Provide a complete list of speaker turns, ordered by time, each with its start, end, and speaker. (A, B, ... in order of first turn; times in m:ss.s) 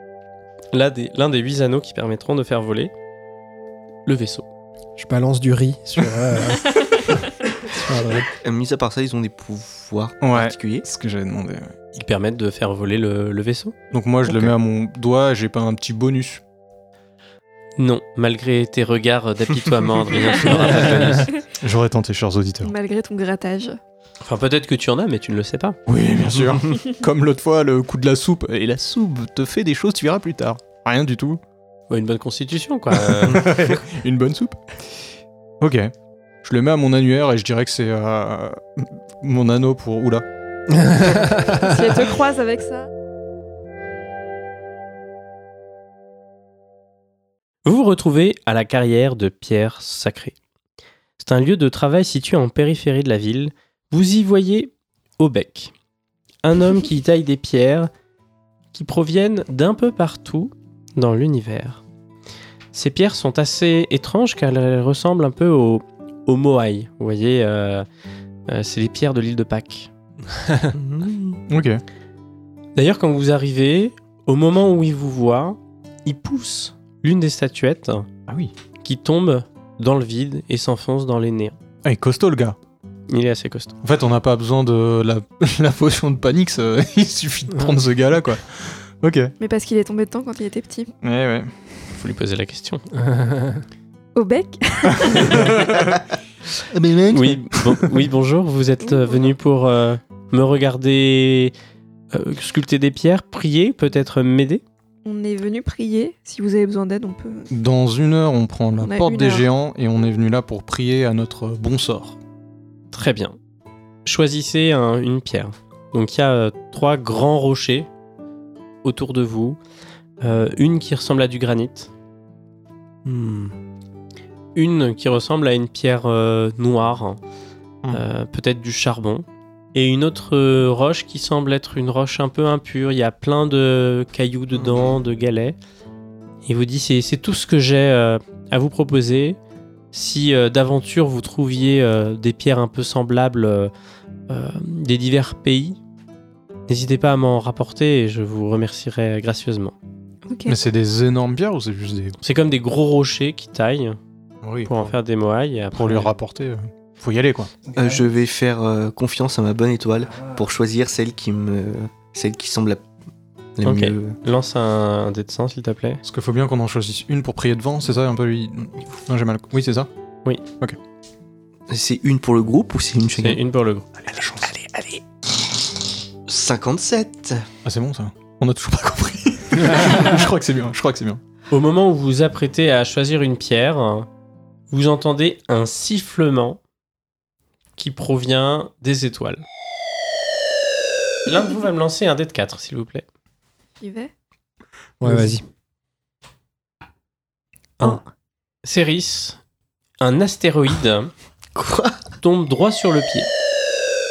0:00.7-0:02.9 A
0:04.1-0:04.5 A
0:05.0-0:08.3 B
0:08.4-0:10.8 C
0:10.2-0:11.7 D
0:11.9-0:13.8 A
0:13.9-0:16.4 D
0:17.8-0:21.3 A
0:21.1-0:22.7 D
0:22.6-0:23.8 E
0:24.2-0:25.8 A
0:25.9-0:31.4 D
0:31.9-0:33.5 A
0:32.9-0:40.2 D
0:40.8-0:42.0 B
0:41.6-0:42.9 E
0:47.6-0:50.4 A
0:51.2-0:55.7 A
0:56.4-0:57.9 A
0:58.7-1:01.8 A
1:02.7-1:07.9 A
1:08.5-1:09.9 A
1:10.8-1:11.4 C
1:11.5-1:11.8 D
1:12.8-1:18.1 A
1:18.3-1:18.5 D
1:18.8-1:21.6 A
1:21.8-1:22.6 D
1:23.1-1:23.8 A
1:23.8-1:29.3 D
1:29.4-1:30.9 E
1:31.0-1:31.5 D
1:32.0-1:32.9 A
1:33.0-1:33.6 B
1:34.2-1:35.5 E
1:35.0-1:36.0 D
1:36.7-1:37.9 C
1:37.1-1:41.6 A
1:38.8-1:39.3 E
1:42.1-1:44.6 A
1:45.0-1:47.5 E
1:47.5-1:52.2 D
1:48.8-1:49.5 E
1:52.9-1:53.4 A
1:54.0-1:57.9 A
1:58.8-1:59.6 A
2:00.2-2:01.9 A
2:03.0-2:03.6 B
2:04.6-2:07.2 A
2:07.9-2:15.6 A
2:14.6-2:14.9 C
2:16.4-2:19.4 A
2:19.9-2:23.7 A
2:24.3-2:25.8 A
2:26.7-2:29.8 A
2:30.3-2:30.6 E
2:30.5-2:32.2 D
2:32.2-2:34.0 A
2:34.4-2:34.9 D
2:34.6-2:36.1 A
2:35.7-2:37.5 D
2:37.7-2:38.0 B
2:37.8-2:42.9 C
2:43.6-2:44.2 C
2:43.6-2:46.0 A
2:46.0-2:49.9 D
2:51.7-2:53.4 C
2:53.2-2:53.9 A
2:54.0-2:55.0 D
2:56.3-2:57.4 C
2:57.6-3:01.2 D
3:01.5-3:04.1 A
3:04.7-3:06.6 A
3:07.8-3:09.4 A
3:11.2-3:13.0 A
3:13.8-3:14.1 E
3:15.0-3:15.4 B
3:18.6-3:19.4 A
3:20.0-3:21.1 A
3:21.6-3:22.0 C
3:22.2-3:23.3 A